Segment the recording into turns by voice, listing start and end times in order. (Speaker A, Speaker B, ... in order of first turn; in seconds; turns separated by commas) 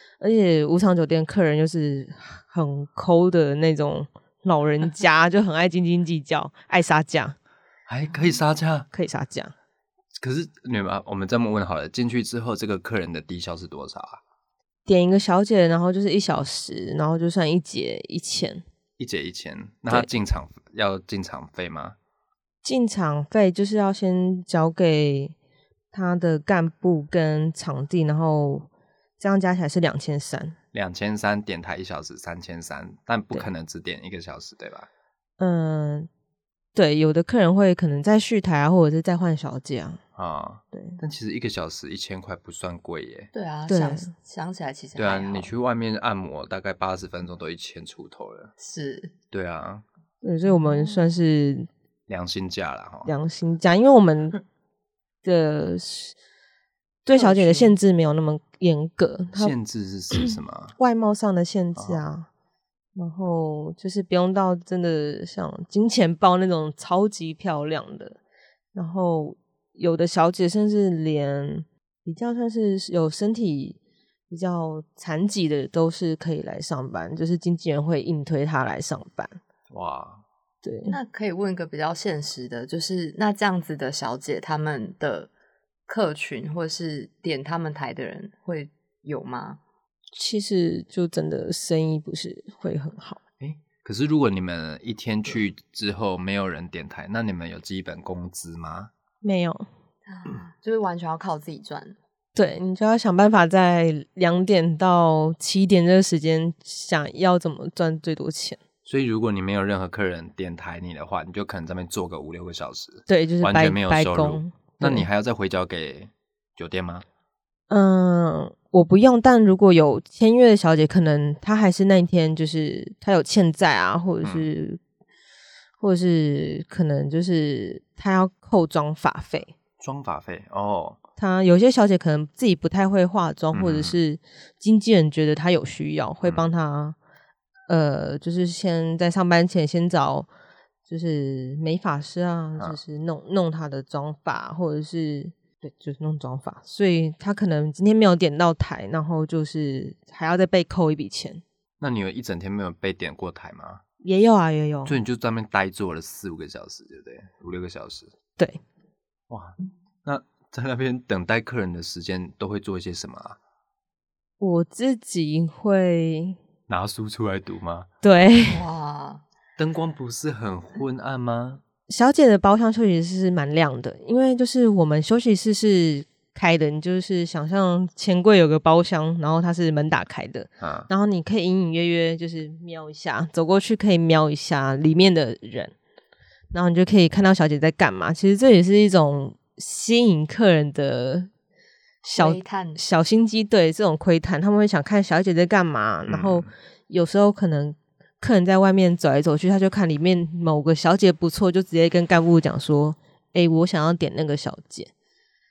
Speaker A: 0.2-7.4, Speaker B: 7.9-8.9, Speaker A: 8.9-9.5, Speaker B: 10.2-14.2, Speaker A: 14.8-18.6, Speaker B: 19.0-21.9, Speaker A: 22.6-25.3, Speaker A: 25.9-28.7, Speaker A: 29.2-30.6, Speaker B: 30.7-34.9, Speaker A: 35.4-36.1, Speaker A: 36.7-40.0, Speaker B: 40.1-43.3, Speaker A: 40.7-41.0, Speaker C: 43.3-45.5, Speaker A: 43.7-44.1, Speaker B: 45.0-48.5, Speaker C: 48.6-49.1, Speaker B: 49.3-49.8, Speaker A: 50.2-51.7, Speaker C: 50.5-51.0, Speaker B: 52.1-53.1, Speaker A: 53.0-54.4, Speaker A: 55.2-56.1, Speaker A: 57.0-59.5, Speaker C: 57.1-57.7, Speaker B: 59.3-60.7, Speaker A: 60.8-62.3, Speaker A: 63.0-68.2, Speaker A: 68.7-73.8, Speaker A: 74.3-79.4, Speaker B: 79.7-80.2, Speaker A: 80.6-81.0, Speaker C: 80.9-85.3, Speaker C: 85.9-89.6, Speaker A: 90.1-93.2, Speaker B: 93.4-98.9, Speaker A: 99.2-99.7, Speaker C: 100.1-102.0, Speaker A: 102.3-108.6, Speaker B: 108.8-117.0, Speaker A: 113.1-115.0, Speaker A: 117.7-124.8, Speaker A: 125.8-129.5, Speaker B: 129.8-131.0, Speaker A: 131.2-136.9, Speaker B: 133.5-134.0, Speaker A: 137.7-140.3, Speaker A: 140.9-151.4, Speaker B: 151.8-153.8, Speaker A: 154.0-155.0, Speaker B: 154.8-158.1, Speaker B: 159.3-163.4, Speaker A: 164.4-166.4, Speaker B: 166.7-167.9, Speaker A: 168.0-168.6, Speaker C: 168.4-169.2, Speaker B: 169.6-171.6, Speaker A: 171.9-185.7, Speaker B: 180.6-180.9, Speaker A: 186.5-191.3, Speaker C: 192.0-192.8, Speaker A: 192.1-204.9, Speaker B: 196.1-196.5